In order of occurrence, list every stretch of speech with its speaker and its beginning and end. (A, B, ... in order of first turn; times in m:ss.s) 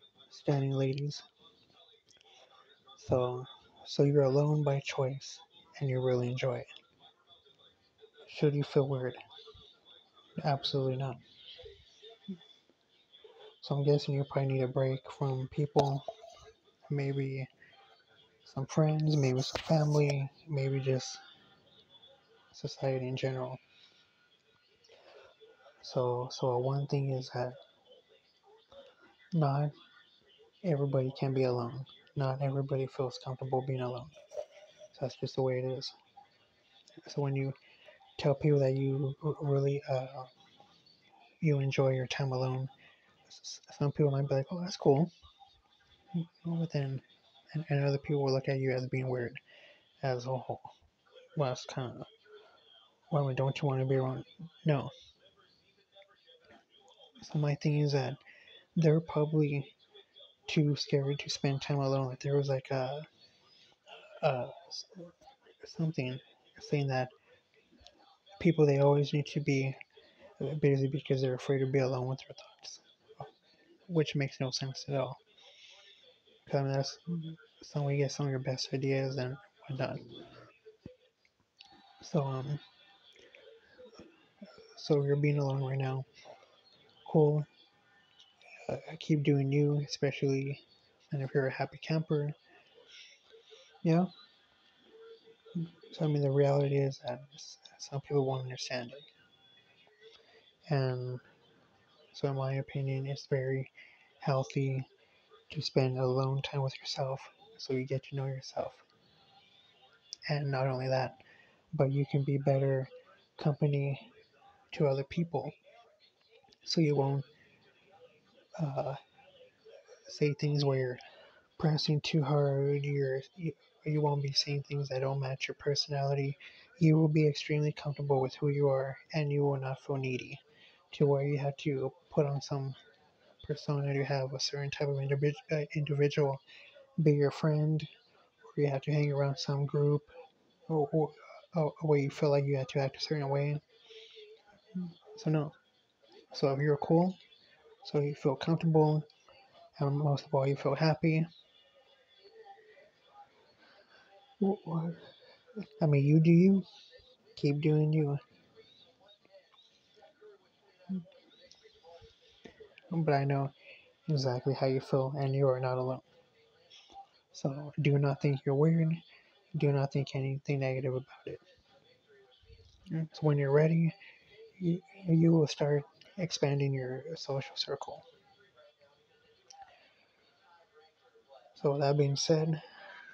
0:00.3-0:01.2 A
0:03.0-0:06.7 A
0:08.2-0:09.2 A
0:10.4-0:11.2 A
0:13.6-0:16.0 A
0:16.9-0:17.5 A
0:18.4-0:21.2 A
0:22.5-0:23.6 A
0:25.8-0:27.6 A
0:29.3-0:29.7 A
0:30.6-0:34.2 A
0:34.9-0:36.0 A
0:37.0-0:37.6 A
0:38.2-0:40.3 A
0:41.4-0:42.7 A
0:43.2-0:45.1 A
0:46.1-0:49.4 A
0:50.0-0:50.7 A
0:51.4-0:52.1 A
0:53.1-0:54.9 A
0:57.2-0:58.2 A
0:58.8-0:59.8 A
1:00.4-1:03.1 A
1:04.0-1:07.1 A
1:08.4-1:09.8 A
1:10.4-1:13.3 A
1:13.9-1:15.2 A
1:16.4-1:20.2 A
1:22.0-1:22.6 A
1:24.6-1:26.1 A
1:27.0-1:27.5 A
1:28.6-1:32.4 A
1:33.8-1:34.1 A
1:35.6-1:39.1 A
1:40.7-1:41.2 A
1:42.1-1:44.9 A
1:45.5-1:48.8 A
1:50.3-1:51.2 A
1:51.7-1:54.1 A
1:54.7-1:55.6 A
1:56.6-1:57.3 A
1:58.6-1:59.0 A
2:00.0-2:01.0 A
2:01.6-2:12.8 A
2:13.4-2:16.4 A
2:17.0-2:17.9 A
2:18.5-2:20.1 A
2:20.7-2:23.6 A
2:24.7-2:25.6 A
2:26.3-2:27.2 A
2:27.8-2:29.1 A
2:29.8-2:31.3 A
2:34.4-2:35.1 A
2:35.8-2:36.7 A
2:37.3-2:38.2 A
2:42.9-2:43.5 A
2:44.0-2:46.1 A
2:47.3-2:51.4 A
2:52.9-2:54.0 A
2:54.6-2:58.0 A
3:01.6-3:02.6 A